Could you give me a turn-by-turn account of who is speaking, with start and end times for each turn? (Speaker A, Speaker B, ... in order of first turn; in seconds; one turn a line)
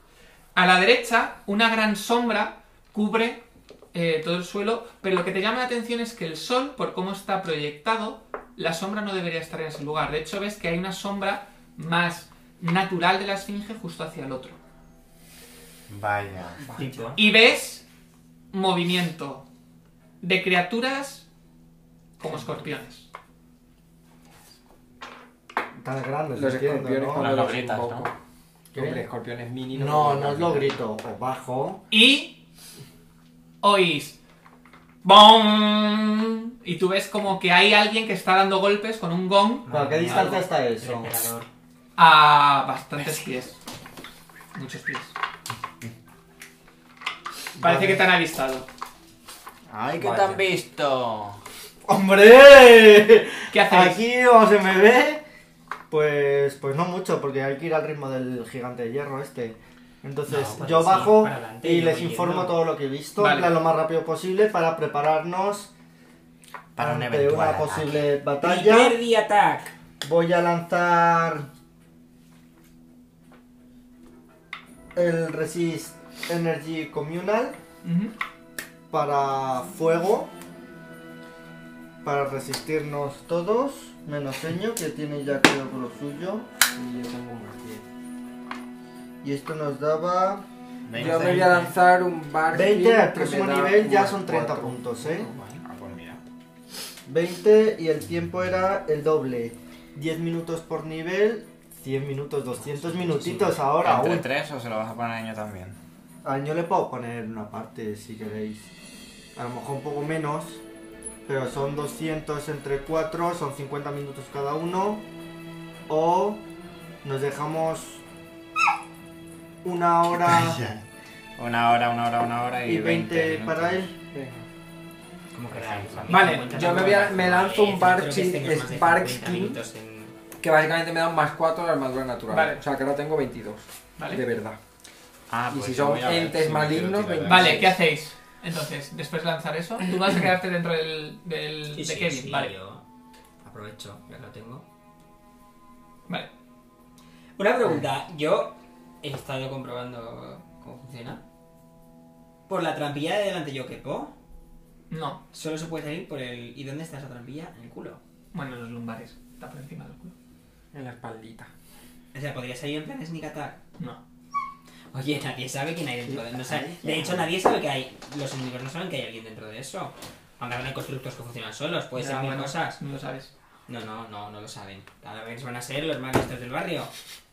Speaker A: 0.5-14.6
Speaker B: 15.9-16.6
Speaker C: 16.6-17.1
Speaker D: 16.8-17.2
Speaker A: 17.1-17.8
Speaker A: 18.5-19.4
Speaker A: 20.2-21.2
Speaker A: 22.2-23.1
Speaker E: 25.8-27.3
Speaker C: 26.3-28.1
Speaker B: 27.1-28.1
Speaker E: 28.7-29.0
Speaker C: 28.7-30.8
Speaker E: 29.7-31.8
Speaker A: 31.9-32.4
Speaker A: 33.6-34.1
Speaker A: 35.0-40.4
Speaker D: 39.6-41.5
Speaker E: 39.7-41.1
Speaker A: 42.0-43.6
Speaker A: 44.5-45.1
Speaker E: 47.6-48.0
Speaker A: 47.6-48.6
Speaker B: 49.7-51.4
Speaker C: 50.0-50.4
Speaker E: 51.9-55.2
Speaker A: 53.5-54.0
Speaker E: 55.9-65.7
Speaker B: 60.3-60.6
Speaker D: 60.3-62.6
Speaker A: 63.2-63.6
Speaker B: 66.8-68.0
Speaker E: 66.8-69.0
Speaker D: 68.4-69.7
Speaker E: 70.0-71.5
Speaker E: 74.9-77.6
Speaker A: 77.8-78.1
Speaker E: 78.9-80.3
Speaker E: 82.0-86.5
Speaker C: 86.7-87.8
Speaker E: 89.2-90.4
Speaker B: 90.8-91.7
Speaker C: 91.0-95.3
Speaker E: 92.5-95.3
Speaker B: 95.2-96.2
Speaker E: 97.0-104.2
Speaker B: 102.7-105.8
Speaker E: 106.2-108.7
Speaker E: 109.3-110.6
Speaker E: 111.3-115.0
Speaker E: 115.9-116.4
Speaker E: 117.0-118.0
Speaker E: 119.6-120.6
Speaker B: 120.2-120.8
Speaker B: 121.3-123.9
Speaker E: 122.6-123.9
Speaker C: 124.1-124.4
Speaker D: 125.3-130.1
Speaker B: 125.5-127.2
Speaker A: 126.1-126.6
Speaker C: 126.3-129.6
Speaker C: 130.4-134.6
Speaker A: 132.3-132.6
Speaker A: 134.0-134.2
Speaker B: 135.3-137.7
Speaker C: 135.5-137.7
Speaker A: 137.2-142.5
Speaker D: 141.7-142.8
Speaker D: 143.4-144.6
Speaker D: 147.4-151.2
Speaker D: 152.5-154.1
Speaker A: 154.9-155.2
Speaker D: 155.3-158.0
Speaker A: 158.3-160.1
Speaker C: 160.7-161.5
Speaker D: 162.1-163.6
Speaker D: 164.9-172.8
Speaker E: 166.5-166.9
Speaker A: 171.9-173.3
Speaker D: 173.7-176.9